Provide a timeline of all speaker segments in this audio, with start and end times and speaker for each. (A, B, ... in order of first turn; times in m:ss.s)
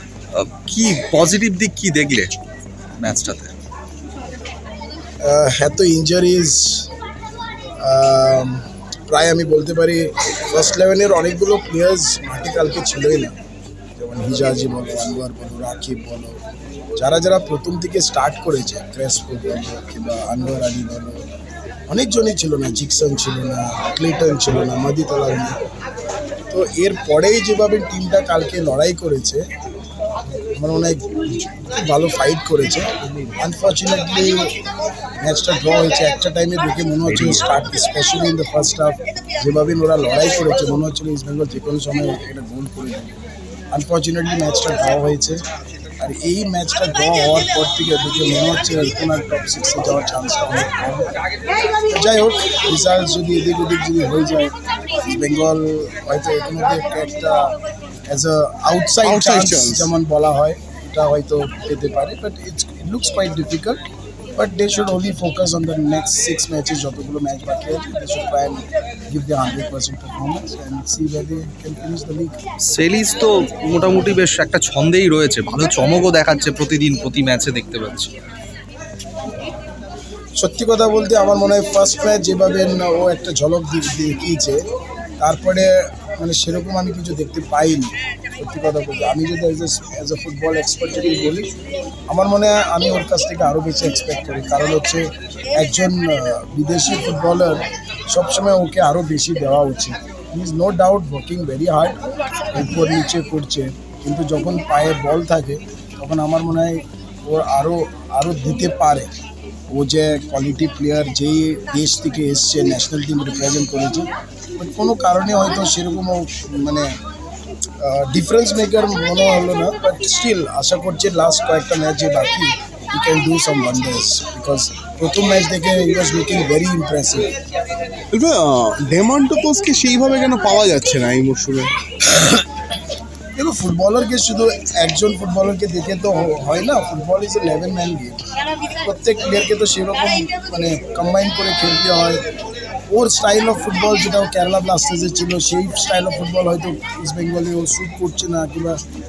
0:00.3-0:02.3 A
0:03.0-0:03.5 A
0:05.2-0:06.9 B
0:07.8-0:13.3 B
0:14.0-0:16.4 B
0:17.0-0:21.2 B
0:21.9-0:25.6 B
0:26.5-0:29.4 B
0:30.3-0:32.9 B
0:33.4-0:34.5 B
0:35.2-0:43.1 B
0:43.7-0:45.4 B
0:46.0-0:51.1 B
0:51.9-0:57.5 B
0:58.1-1:03.8 B
0:59.0-0:59.9 C
1:04.4-1:12.3 B
1:12.7-1:18.1 A
1:20.4-1:24.6 B
1:25.2-1:31.5 B
1:32.1-1:49.1 B
1:49.7-1:56.9 B
1:57.8-2:07.3 B
2:08.1-2:11.7 C
2:13.3-2:22.2 B
2:22.9-2:28.8 B